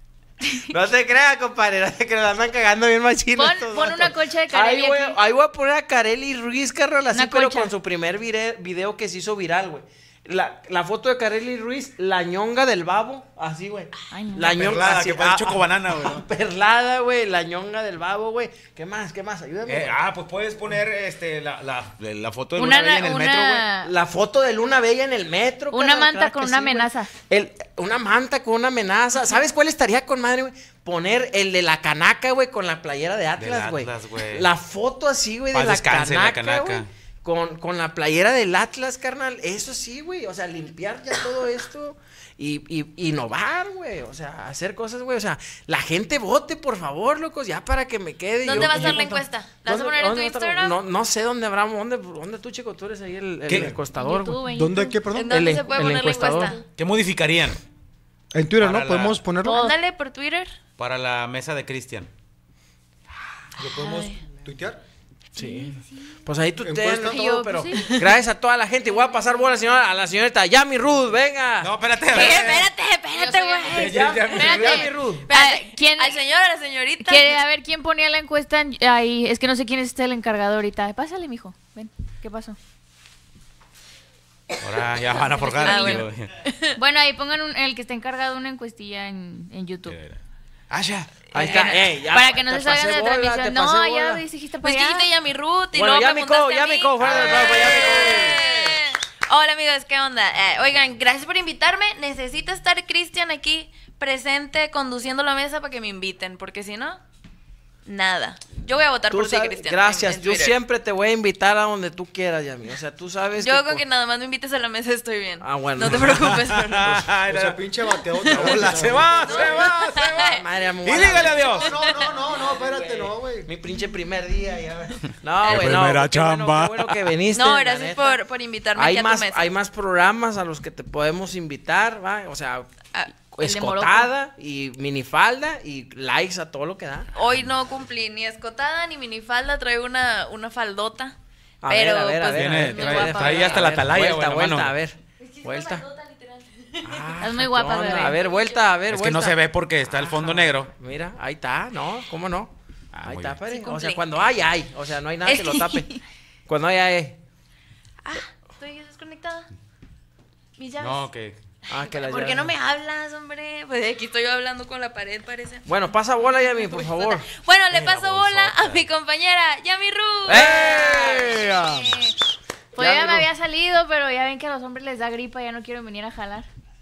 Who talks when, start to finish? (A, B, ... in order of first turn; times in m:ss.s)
0:00.7-0:20.0 A
0:03.4-0:05.2 B
0:07.1-0:07.7 B
0:14.1-0:14.6 B
0:14.5-0:16.2 C
0:19.7-0:23.7 C
0:22.6-0:23.9 B
0:23.8-0:54.4 A
0:25.7-0:27.1 B
0:33.4-0:34.5 C
0:35.5-0:36.9 C
0:48.4-0:50.8 D
0:48.6-0:48.8 E
0:53.5-0:53.8 C
0:54.0-0:55.0 B
0:54.5-0:55.4 E
0:55.1-0:56.6 D
0:55.3-0:56.6 A
0:56.2-0:56.6 B
0:56.8-0:57.6 C
0:58.3-0:59.7 E
0:58.6-0:59.2 C
0:59.4-0:59.8 B
0:59.5-1:00.5 D
1:00.8-1:02.1 C
1:03.6-1:04.8 E
1:03.6-1:04.2 D
1:05.4-1:12.7 A
1:05.4-1:05.8 B
1:06.6-1:07.2 E
1:07.1-1:08.1 B
1:11.6-1:12.7 C
1:12.1-1:14.0 D
1:13.1-1:16.2 B
1:13.7-1:15.3 A
1:13.7-1:14.9 C
1:15.3-1:17.4 D
1:17.0-1:22.6 B
1:24.6-1:26.3 C
1:25.4-1:26.8 D
1:25.4-1:26.0 B
1:26.8-1:30.0 B
1:29.9-1:30.2 C
1:30.7-1:31.3 C
1:31.3-1:31.8 D
1:31.3-1:34.2 A
1:31.4-1:35.1 B
1:34.6-1:47.0 D
1:35.7-1:38.4 A
1:37.0-1:38.6 C
1:47.9-1:50.5 D
1:49.1-1:53.8 A
1:53.4-1:57.0 D
1:55.4-1:56.5 A
1:55.9-1:57.6 C
1:56.9-1:59.5 E
1:58.2-2:01.7 C
1:58.3-1:59.5 A
1:59.2-2:02.1 D
2:00.2-2:08.2 A
2:01.2-2:03.5 E
2:05.4-2:05.8 D
2:05.4-2:07.0 C
2:07.3-2:09.5 D
2:08.8-2:17.1 A
2:13.4-2:14.1 B
2:17.1-2:21.2 D
2:21.6-2:25.9 A
2:21.7-2:23.5 D
2:22.3-2:24.8 C
2:22.6-2:23.7 B
2:25.2-2:27.2 D
2:26.8-2:32.5 A
2:27.2-2:28.2 B
2:28.1-2:28.7 D
2:28.9-2:30.7 C
2:32.9-2:33.4 C
2:33.0-2:35.9 A
2:33.4-2:34.0 D
2:35.3-2:35.9 D
2:36.5-2:37.2 A
2:38.0-2:39.5 D
2:40.6-2:41.1 D
2:40.8-2:41.4 C
2:41.7-2:42.6 A
2:41.8-2:45.7 D
2:45.7-2:47.3 A
2:46.2-2:51.8 D
2:47.7-2:48.8 C
2:50.3-2:51.9 A
2:51.7-2:52.1 B
2:52.8-2:53.3 A
2:52.8-2:56.5 B